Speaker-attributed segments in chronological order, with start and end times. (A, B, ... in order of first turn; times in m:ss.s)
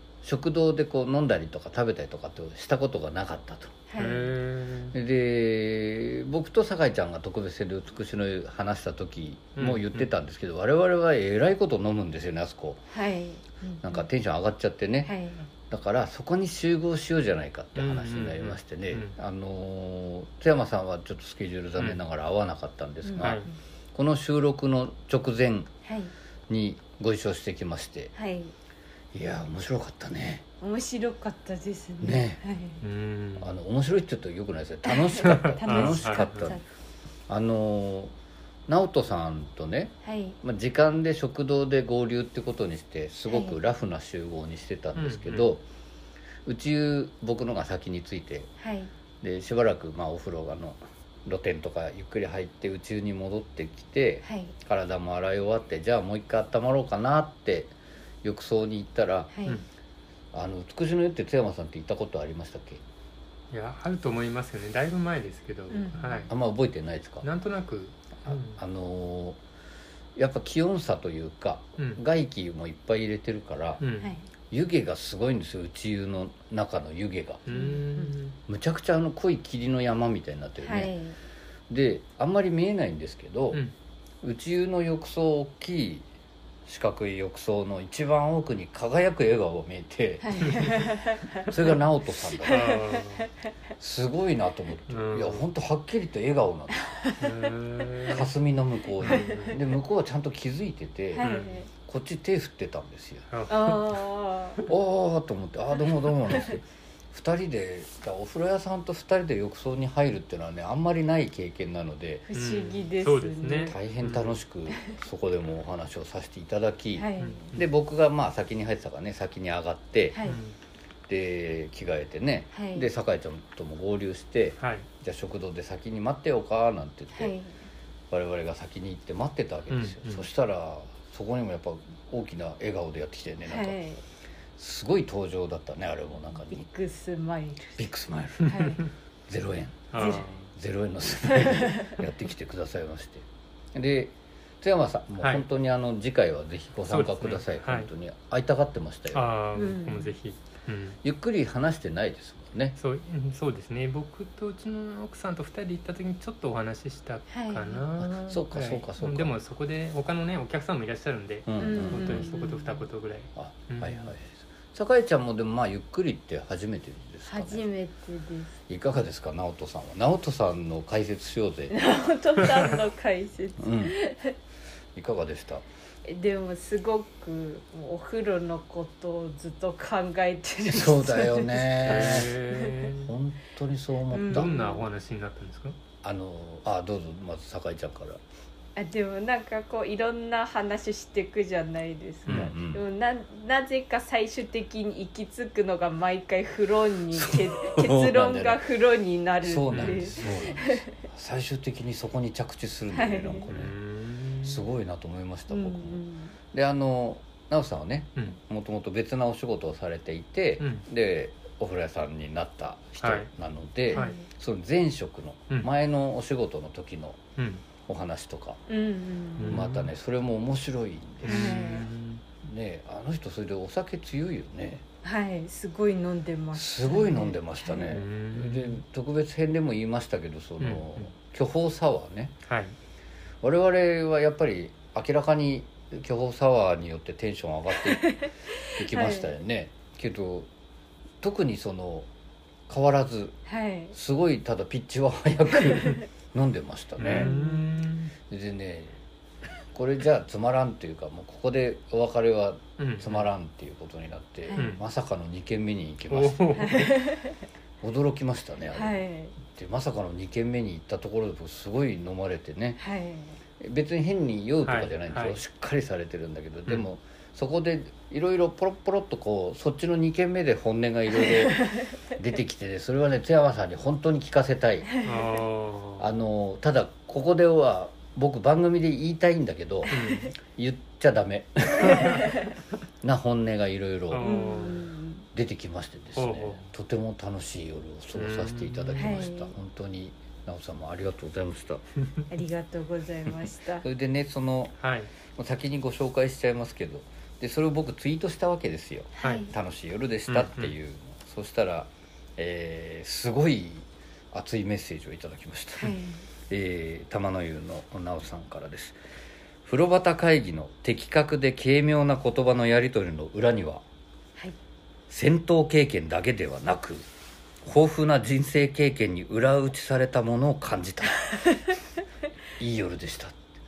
0:00.2-0:03.7 A
0:03.9-0:04.3 B
0:04.0-0:04.9 C
0:04.9-0:12.8 A
0:09.6-0:10.1 C
0:12.9-0:14.0 B
0:13.8-0:15.2 A
0:15.0-0:15.5 B
0:15.7-0:23.4 A
0:17.8-0:19.1 C
0:23.0-0:23.5 B
0:23.2-0:23.4 C
0:23.9-0:25.7 A
0:25.8-0:26.1 B
0:26.5-0:28.1 A
0:28.1-0:28.5 B
0:29.1-0:30.4 A
0:30.6-0:32.8 B
0:32.0-0:32.4 A
0:32.8-0:33.5 C
0:33.4-0:36.6 A
0:34.8-0:36.6 B
0:35.2-0:36.4 C
0:37.3-0:38.1 A
0:38.7-0:45.6 A
0:40.0-0:40.4 B
0:43.3-0:43.6 B
0:45.0-0:45.5 C
0:46.4-0:48.5 A
0:48.6-0:48.9 B
0:49.2-0:59.3 A
0:54.2-0:54.5 B
0:59.3-0:59.6 B
1:00.3-1:02.8 A
1:03.5-1:06.3 C
1:05.7-1:06.2 B
1:06.3-1:07.2 A
1:07.2-1:08.6 C
1:08.2-1:09.4 A
1:10.2-1:13.8 A
1:13.8-1:14.1 C
1:14.0-1:14.2 B
1:14.5-1:17.5 A
1:17.5-1:18.4 C
1:17.5-1:18.1 B
1:18.5-1:20.9 A
1:20.6-1:21.2 B
1:21.7-1:23.6 A
1:24.2-1:26.0 A
1:26.6-1:30.8 A
1:30.2-1:31.5 B
1:30.4-1:30.8 C
1:31.4-1:32.8 A
1:32.4-1:33.2 C
1:32.4-1:33.3 B
1:33.8-1:36.8 A
1:34.9-1:35.4 C
1:36.8-1:37.2 B
1:37.2-1:38.3 C
1:38.1-1:43.2 A
1:39.0-1:39.6 C
1:39.2-1:39.5 B
1:41.1-1:41.7 B
1:41.2-1:41.5 C
1:43.3-1:44.0 C
1:43.5-1:44.6 B
1:44.6-1:52.3 A
1:52.3-1:53.8 B
1:52.3-1:54.4 C
1:53.6-2:00.2 A
1:57.0-1:57.5 B
1:57.2-1:57.6 C
2:00.1-2:00.4 B
2:00.2-2:00.5 C
2:01.1-2:07.3 A
2:02.5-2:02.9 B
2:04.6-2:04.8 C
2:07.1-2:07.5 B
2:08.1-2:13.8 A
2:09.7-2:10.3 C
2:13.5-2:14.0 B
2:14.6-2:16.7 A
2:16.5-2:17.8 B
2:17.8-2:18.6 A
2:18.4-2:18.8 B
2:18.4-2:18.7 C
2:19.3-2:29.3 A
2:19.9-2:20.5 C
2:20.0-2:20.2 B
2:21.3-2:21.9 B
2:26.9-2:27.9 C
2:29.1-2:31.0 C
2:29.5-2:30.1 B
2:31.0-2:32.8 A
2:32.8-2:44.1 C
2:37.3-2:37.8 B
2:38.0-2:39.4 A
2:41.5-2:42.3 A
2:41.6-2:42.8 B
2:43.3-2:47.6 A
2:47.3-2:48.5 B
2:48.7-2:51.8 A
2:51.7-2:54.4 B
2:53.6-2:54.0 A
2:54.9-2:55.6 A
2:56.0-3:02.8 B
3:00.6-3:02.4 A
3:01.8-3:03.1 C
3:02.9-3:04.6 A
3:04.1-3:04.8 B
3:04.2-3:05.8 C
3:06.0-3:08.2 A
3:08.8-3:20.9 B
3:12.2-3:12.8 A
3:17.1-3:18.6 A
3:19.4-3:23.8 A
3:19.7-3:20.3 C
3:22.9-3:23.5 B
3:23.5-3:24.7 C
3:24.4-3:37.2 A
3:25.5-3:26.3 B
3:33.0-3:33.3 C
3:33.9-3:34.2 B
3:37.4-3:37.6 C
3:37.8-3:38.6 A
3:38.7-3:39.6 B
3:39.4-3:39.9 C
3:39.4-3:41.6 A
3:41.2-3:42.2 C
3:41.3-3:41.9 B
3:42.4-3:44.8 A
3:45.0-3:48.0 B
3:46.5-3:52.3 A
3:47.8-3:48.8 C
3:50.6-3:51.1 C
3:52.4-3:52.7 C
3:53.4-3:58.2 A
3:57.9-3:59.3 B
3:58.8-4:00.5 A
4:01.2-4:02.1 A
4:02.7-4:03.4 A
4:03.5-4:03.9 B
4:03.9-4:07.3 A
4:07.0-4:08.1 C
4:07.0-4:07.6 B
4:08.3-4:09.0 A
4:09.7-4:16.9 A
4:12.8-4:13.3 C
4:14.6-4:14.8 C
4:16.1-4:16.9 C
4:16.6-4:17.4 B
4:17.8-4:22.8 A
4:18.7-4:19.3 B
4:22.8-4:23.4 B
4:23.6-4:34.9 A
4:24.6-4:25.4 C
4:31.2-4:31.9 B
4:34.9-4:35.2 B
4:35.0-4:36.1 C
4:36.0-4:42.4 A
4:39.9-4:40.3 B
4:39.9-4:40.3 C
4:42.0-4:42.4 B
4:43.0-4:44.4 A
4:44.1-4:44.9 C
4:44.2-4:45.2 B
4:45.3-4:51.8 A
4:46.2-4:46.6 C
4:48.1-4:49.3 C
4:49.0-4:49.5 B
4:52.3-4:53.8 B
4:53.8-4:54.8 A
4:54.8-4:55.1 C
4:55.4-5:06.0 A
4:59.2-4:59.5 B
5:00.3-5:00.7 C
5:05.8-5:06.2 B
5:06.5-5:09.0 A
5:09.6-5:13.8 A
5:15.1-5:17.0 A
5:17.6-5:21.2 A
5:21.3-5:21.6 B
5:22.6-5:23.4 A